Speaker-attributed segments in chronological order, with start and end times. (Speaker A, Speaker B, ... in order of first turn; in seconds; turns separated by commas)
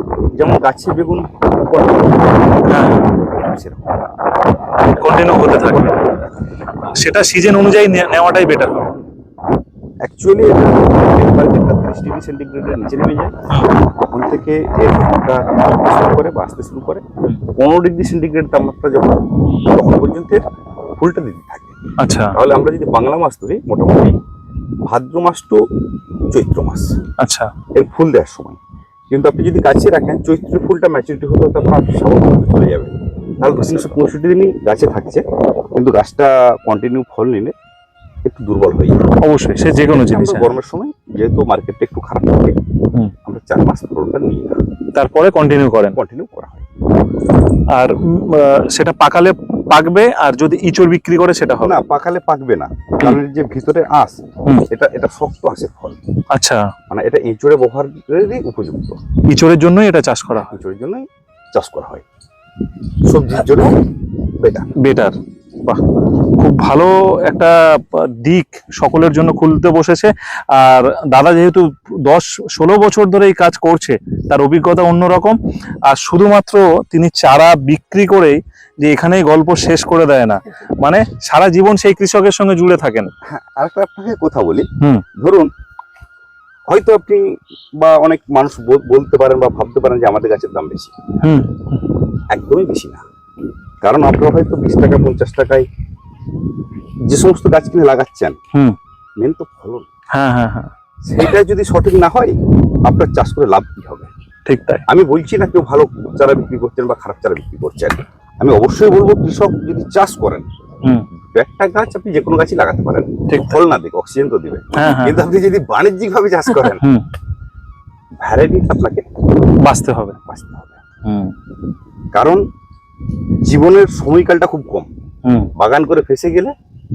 Speaker A: 0.3-4.0, Speaker B: 2.7-3.1, Speaker B: 4.9-5.9, Speaker A: 5.7-6.3, Speaker B: 6.9-8.9, Speaker A: 10.0-13.3, Speaker A: 14.0-17.0, Speaker A: 17.6-20.4, Speaker A: 21.0-21.7, Speaker B: 22.0-22.3, Speaker A: 22.3-24.2, Speaker A: 24.9-25.6, Speaker A: 26.3-26.9, Speaker B: 27.2-27.5, Speaker A: 27.7-28.6, Speaker A: 29.1-35.2, Speaker B: 33.4-34.0, Speaker A: 35.8-37.5, Speaker A: 38.2-39.0, Speaker B: 39.2-40.5, Speaker A: 39.9-42.6, Speaker A: 43.2-44.6, Speaker B: 44.9-46.0, Speaker A: 45.9-46.6, Speaker B: 47.7-51.8, Speaker A: 51.6-56.0, Speaker B: 56.3-56.7, Speaker A: 56.9-59.0, Speaker B: 59.3-60.5, Speaker A: 60.5-62.0, Speaker A: 63.1-63.8, Speaker A: 64.4-64.7, Speaker B: 64.8-65.8, Speaker B: 66.4-83.1, Speaker A: 83.3-84.7, Speaker A: 85.2-85.5, Speaker A: 86.7-90.9, Speaker B: 91.2-91.8, Speaker A: 92.3-93.0, Speaker A: 93.8-95.7, Speaker A: 97.1-98.3, Speaker A: 99.2-99.9, Speaker B: 100.1-100.7, Speaker A: 101.0-102.3, Speaker A: 102.8-104.1, Speaker B: 104.5-104.8, Speaker A: 104.9-110.5, Speaker A: 111.3-116.8, Speaker B: 113.3-113.6, Speaker B: 114.7-115.2, Speaker B: 116.8-117.0, Speaker A: 118.2-119.0, Speaker B: 119.6-120.2, Speaker A: 120.3-120.8, Speaker B: 121.0-121.3, Speaker A: 122.1-122.4, Speaker A: 123.4-124.9, Speaker B: 125.2-125.5, Speaker A: 125.5-126.5